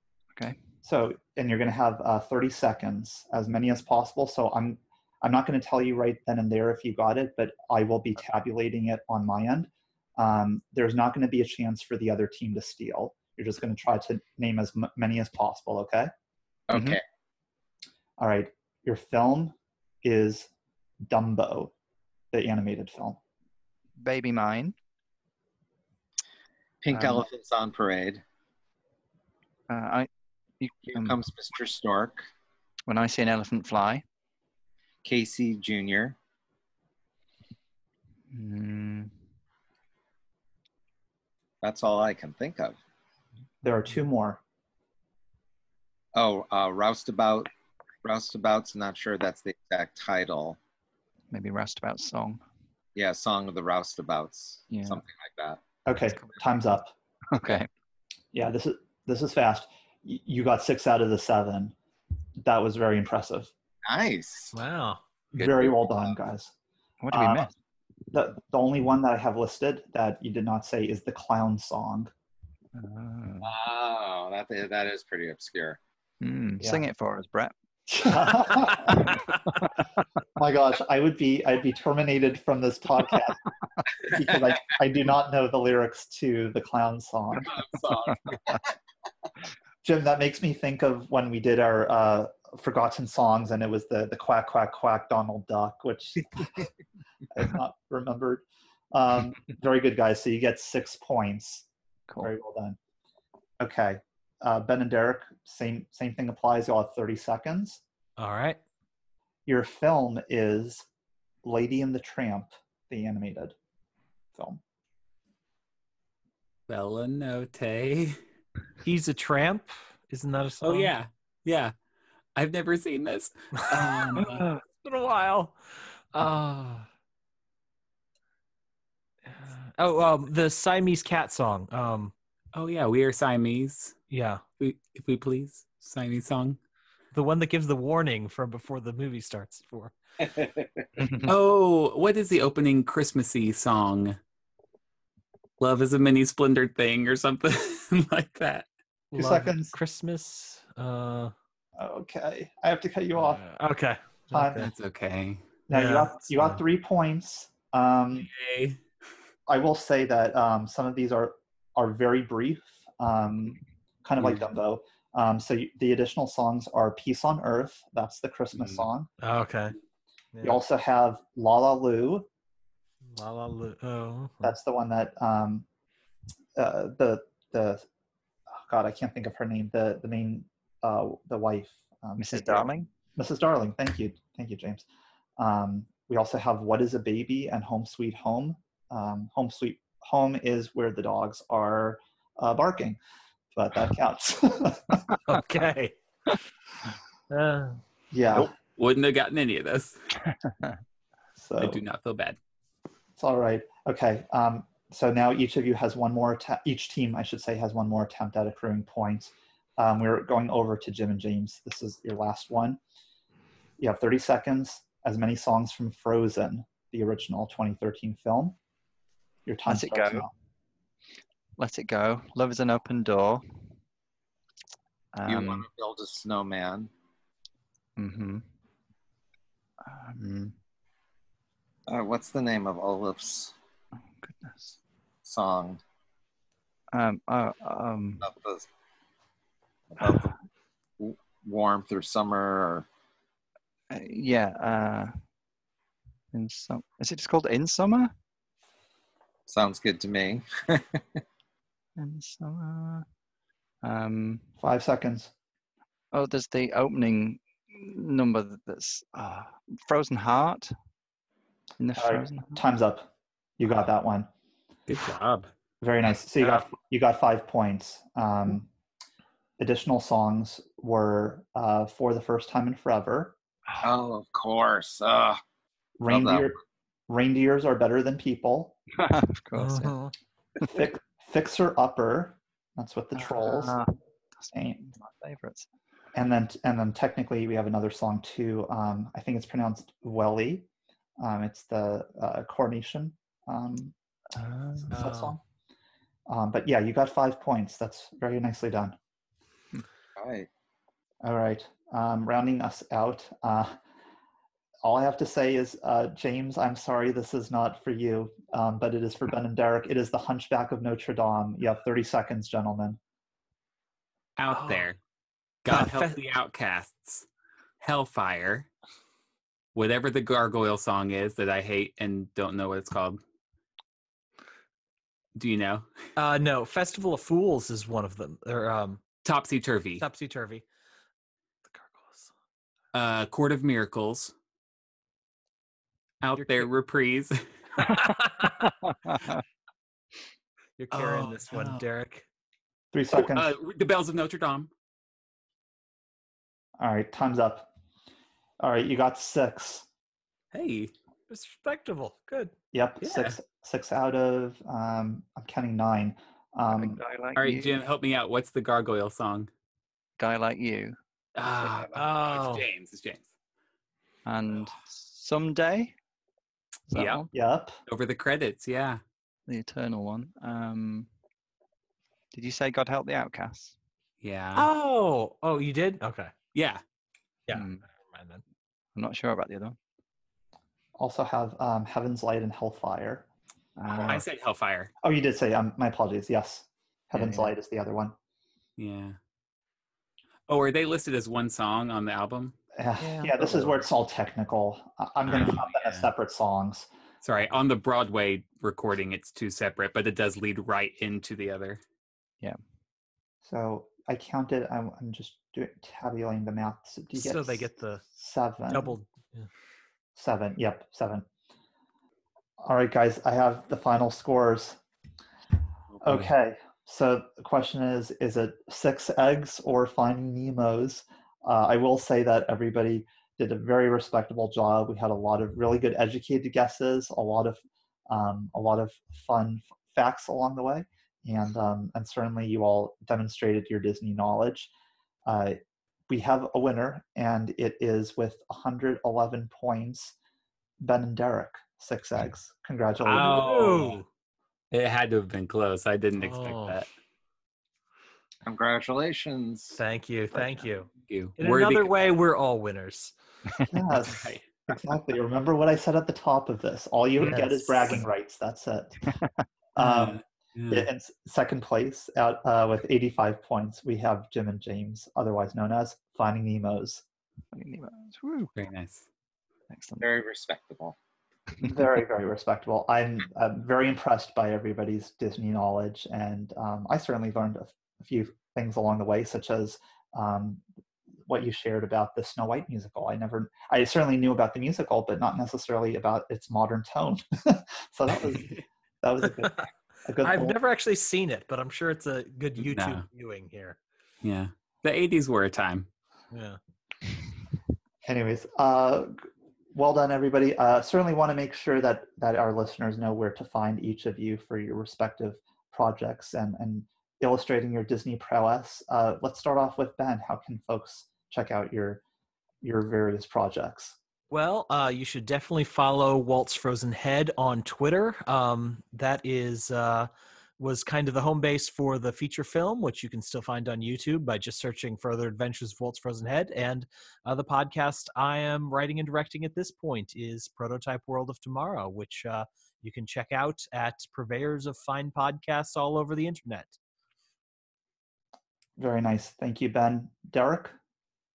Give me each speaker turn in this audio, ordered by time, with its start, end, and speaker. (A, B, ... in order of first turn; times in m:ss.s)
0:00.8-0:16.1 A
0:16.7-0:17.0 B
0:16.7-0:17.0 C
0:18.2-0:20.5 A
0:21.0-0:21.7 A
0:22.3-0:23.2 A
0:24.0-0:24.8 C
0:26.8-0:28.2 B
0:26.9-0:27.2 C
0:29.7-0:30.1 C
0:30.6-0:31.2 C
0:30.9-0:32.3 B
0:32.9-0:34.0 C
0:35.0-0:36.2 B
0:38.3-0:39.1 C
0:41.6-0:42.8 B
0:43.6-0:44.4 A
0:46.1-0:47.5 B
0:48.0-0:50.6 B
0:51.3-0:52.4 C
0:52.9-0:55.6 B
0:54.7-0:55.0 C
0:55.9-0:56.9 A
0:57.3-0:57.7 C
0:58.3-1:01.7 A
1:02.4-1:03.5 A
1:03.8-1:04.6 B
1:04.5-1:05.0 D
1:05.4-1:06.5 A
1:05.4-1:05.7 C
1:07.0-1:07.5 C
1:07.1-1:07.5 A
1:08.1-1:12.1 A
1:12.7-1:13.5 C
1:13.4-1:15.8 B
1:16.2-1:19.0 C
1:17.9-1:19.3 A
1:20.4-1:23.4 A
1:24.0-1:27.6 A
1:27.5-1:28.6 B
1:29.8-1:36.7 A
1:37.3-1:41.6 A
1:42.2-1:42.8 A
1:43.6-1:47.8 A
1:48.2-1:48.6 D
1:49.4-1:50.9 A
1:51.4-1:53.6 A
1:54.3-1:54.6 A
1:56.7-1:58.2 E
1:58.8-2:00.9 D
2:00.6-2:01.7 E
2:02.4-2:04.4 E
2:03.6-2:05.6 D
2:06.1-2:06.9 D
2:09.3-2:12.1 D
2:12.5-2:14.0 E
2:14.1-2:14.4 D
2:14.6-2:16.6 E
2:17.1-2:19.9 D
2:20.2-2:20.6 B
2:21.0-2:21.3 C
2:21.3-2:24.2 E
2:25.6-2:28.7 E
2:29.1-2:31.3 D
2:29.1-2:29.7 A
2:31.8-2:33.4 A
2:33.2-2:34.7 D
2:34.3-2:34.7 A
2:34.6-2:35.4 E
2:35.7-2:38.3 A
2:35.7-2:36.6 D
2:38.2-2:38.8 E
2:39.5-2:49.1 A
2:48.6-2:48.9 E
2:49.2-2:49.7 D
2:50.3-2:50.6 D
2:50.4-2:52.3 A
2:53.1-2:54.6 D
2:54.4-2:55.6 A
2:56.6-2:57.8 A
2:58.6-3:04.9 A
3:02.2-3:02.9 C
3:05.4-3:13.0 A
3:13.6-3:15.1 A
3:15.3-3:16.0 D
3:17.3-3:17.8 D
3:18.1-3:18.5 A
3:18.3-3:20.0 E
3:20.3-3:20.8 C
3:21.4-3:21.8 A
3:21.6-3:22.4 E
3:23.2-3:32.8 A
3:33.8-3:38.6 A
3:39.4-3:40.3 A
3:39.7-3:40.3 C
3:41.6-3:43.6 C
3:45.1-3:45.6 C
3:45.3-3:46.9 B
3:48.0-3:48.4 C
3:49.8-3:50.6 C
3:51.9-3:53.5 B
3:54.2-3:54.8 C
3:55.2-3:55.8 B
3:56.9-3:58.3 C
3:58.2-3:58.7 B
3:59.9-4:00.3 B
4:00.0-4:00.3 C
4:01.0-4:02.9 B
4:03.9-4:05.1 C
4:06.3-4:08.1 C
4:09.5-4:11.2 B
4:12.0-4:13.0 C
4:13.8-4:14.4 C
4:14.6-4:15.3 A
4:16.1-4:20.7 C
4:21.8-4:22.6 C
4:22.0-4:23.1 A
4:23.6-4:24.3 A
4:24.9-4:25.5 E
4:25.8-4:28.7 A
4:29.6-4:33.3 A
4:33.8-4:35.4 B
4:36.0-4:36.6 A
4:36.1-4:36.5 B
4:37.1-4:38.8 A
4:38.9-4:40.0 C
4:39.6-4:40.1 D
4:40.6-4:43.8 A
4:43.2-4:45.7 C
4:44.5-4:44.9 A
4:46.1-4:50.6 A
4:51.2-4:53.9 A
4:54.3-4:55.2 C
4:54.9-4:55.4 A
4:54.9-4:55.4 D
4:56.3-4:59.0 A
5:00.2-5:00.5 B
5:01.2-5:03.8 A
5:04.8-5:13.0 A
5:14.4-5:15.0 E
5:14.5-5:14.9 D
5:15.6-5:17.3 E
5:15.7-5:16.2 D
5:17.8-5:18.7 E
5:19.7-5:23.2 E
5:25.4-5:25.9 E
5:26.2-5:29.0 D
5:29.2-5:30.0 E
5:30.0-5:30.6 D
5:31.7-5:32.3 D
5:32.9-5:34.3 E
5:36.2-5:37.9 E
5:36.4-5:36.7 D
5:37.8-5:38.7 D
5:38.6-5:39.4 C
5:40.8-5:42.2 D
5:40.9-5:41.8 E
5:42.9-5:43.5 A
5:43.1-5:44.7 E
5:46.8-5:47.7 A
5:48.6-5:49.9 A
5:50.5-5:50.9 E
5:51.3-5:52.5 D
5:52.7-5:57.0 A
5:53.0-5:53.4 E
5:56.7-5:57.8 C
5:57.4-5:59.5 E
6:00.2-6:01.0 C
6:01.4-6:03.2 E
6:01.9-6:02.6 D
6:04.3-6:05.9 C
6:06.9-6:07.3 C
6:06.9-6:07.2 E
6:07.3-6:07.8 A
6:07.9-6:09.0 E
6:09.5-6:11.1 C
6:12.3-6:13.7 C
6:14.2-6:14.7 E
6:14.6-6:16.3 D
6:16.6-6:16.8 E
6:17.5-6:18.4 D
6:17.5-6:17.8 C
6:18.9-6:19.8 C
6:21.0-6:23.3 A
6:23.8-6:24.2 C
6:24.1-6:24.9 E
6:25.0-6:28.1 A
6:27.1-6:27.5 C
6:28.8-6:29.2 E
6:30.5-6:32.6 E
6:32.8-6:36.9 A
6:33.0-6:33.9 C
6:35.3-6:36.1 E
6:37.2-6:41.8 E
6:43.4-6:48.9 A
6:47.1-6:48.0 D
6:48.6-6:49.5 D
6:50.2-6:51.3 A
6:52.6-6:54.8 A
6:56.0-6:56.3 E
6:56.0-7:14.7 A
7:15.3-7:15.6 A
7:16.1-7:20.1 A
7:20.8-7:23.5 A
7:23.0-7:24.0 D
7:23.1-7:24.0 E
7:24.7-7:26.9 E
7:26.2-7:26.8 D
7:28.4-7:29.8 B
7:29.7-7:33.1 D
7:31.0-7:32.0 E
7:33.7-7:39.1 A
7:34.1-7:34.4 E
7:37.3-7:38.0 D
7:39.7-7:47.0 A
7:39.8-7:40.9 E
7:47.5-7:48.5 C
7:48.6-7:49.0 E
7:49.7-7:50.1 C
7:50.0-7:51.0 B
7:51.6-7:51.9 C
7:51.6-8:00.6 A
8:01.3-8:10.6 A
8:10.2-8:13.8 D
8:12.6-8:13.0 E
8:14.2-8:15.9 E
8:16.3-8:16.6 D
8:18.0-8:19.2 A
8:19.7-8:32.0 A
8:32.6-8:34.0 A
8:34.3-8:56.8 D
8:58.8-9:00.8 A